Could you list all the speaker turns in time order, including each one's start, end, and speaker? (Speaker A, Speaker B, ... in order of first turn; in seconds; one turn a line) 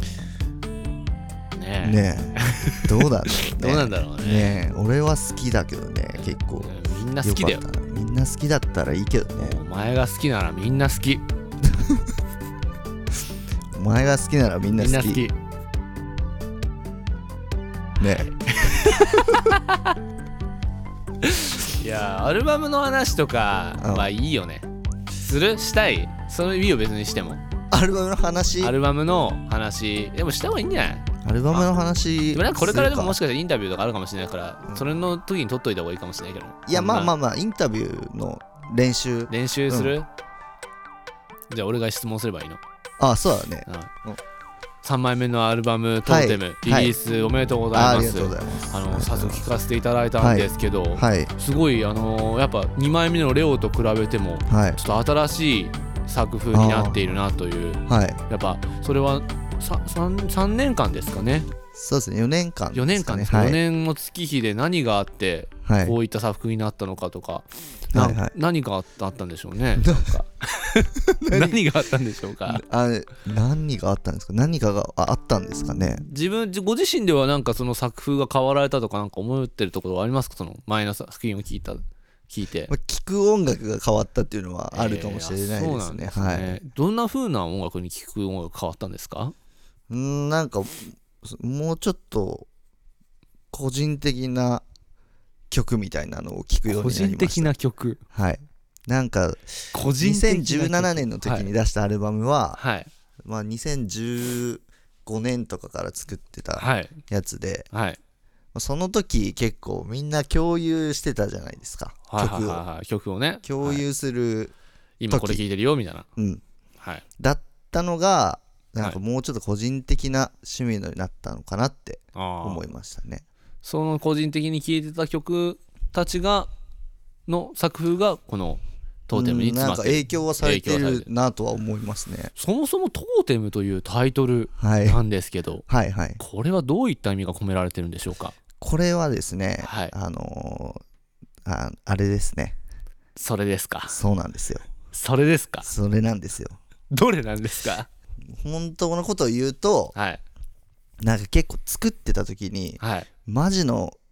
Speaker A: 1.5-4.7
Speaker B: 1.8-9.6
Speaker A: 6.1-7.6
Speaker A: 9.4-11.2
Speaker B: 11.7-12.0
Speaker B: 13.7-15.2
Speaker A: 14.8-15.4
Speaker B: 18.0-19.4
Speaker A: 18.6-19.9
Speaker A: 21.2-24.7
Speaker B: 23.8-24.1
Speaker A: 25.2-27.4
Speaker B: 27.7-28.8
Speaker A: 28.6-31.7
Speaker B: 31.2-33.2
Speaker A: 32.3-37.1
Speaker B: 34.7-35.1
Speaker B: 36.7-39.9
Speaker A: 39.3-40.1
Speaker A: 41.5-42.6
Speaker B: 43.0-44.2
Speaker A: 43.7-43.9
Speaker A: 44.8-61.5
Speaker B: 46.0-46.9
Speaker B: 47.7-49.4
Speaker B: 50.2-51.3
Speaker B: 54.5-54.8
Speaker B: 56.5-57.2
Speaker B: 57.9-58.2
Speaker B: 61.7-63.6
Speaker A: 62.7-72.6
Speaker B: 65.7-66.0
Speaker B: 67.9-68.3
Speaker B: 69.8-70.2
Speaker B: 71.2-71.6
Speaker B: 72.5-76.0
Speaker A: 76.0-82.7
Speaker B: 82.7-86.6
Speaker A: 84.7-89.3
Speaker B: 89.9-92.5
Speaker B: 93.5-94.6
Speaker B: 95.5-97.5
Speaker A: 96.7-98.0
Speaker B: 98.1-102.6
Speaker A: 99.7-101.5
Speaker A: 102.6-102.9
Speaker B: 103.2-107.7
Speaker A: 106.6-107.0
Speaker A: 107.7-108.0
Speaker B: 108.5-112.6
Speaker A: 112.1-113.8
Speaker B: 113.4-114.5
Speaker A: 115.0-116.1
Speaker B: 115.1-115.4
Speaker B: 116.2-116.4
Speaker B: 117.2-123.2
Speaker A: 122.1-122.6
Speaker A: 123.6-126.5
Speaker A: 127.3-131.1
Speaker B: 129.1-132.3
Speaker A: 132.3-135.6
Speaker B: 134.6-135.0
Speaker B: 135.7-136.2
Speaker A: 136.2-138.3
Speaker B: 138.6-140.8
Speaker A: 139.6-139.9
Speaker B: 141.4-142.6
Speaker A: 143.2-143.9
Speaker B: 143.9-144.7
Speaker A: 144.9-145.7
Speaker B: 145.6-146.6
Speaker A: 146.9-147.9
Speaker B: 148.3-149.9
Speaker A: 149.9-150.2
Speaker B: 151.0-153.9
Speaker A: 152.8-153.1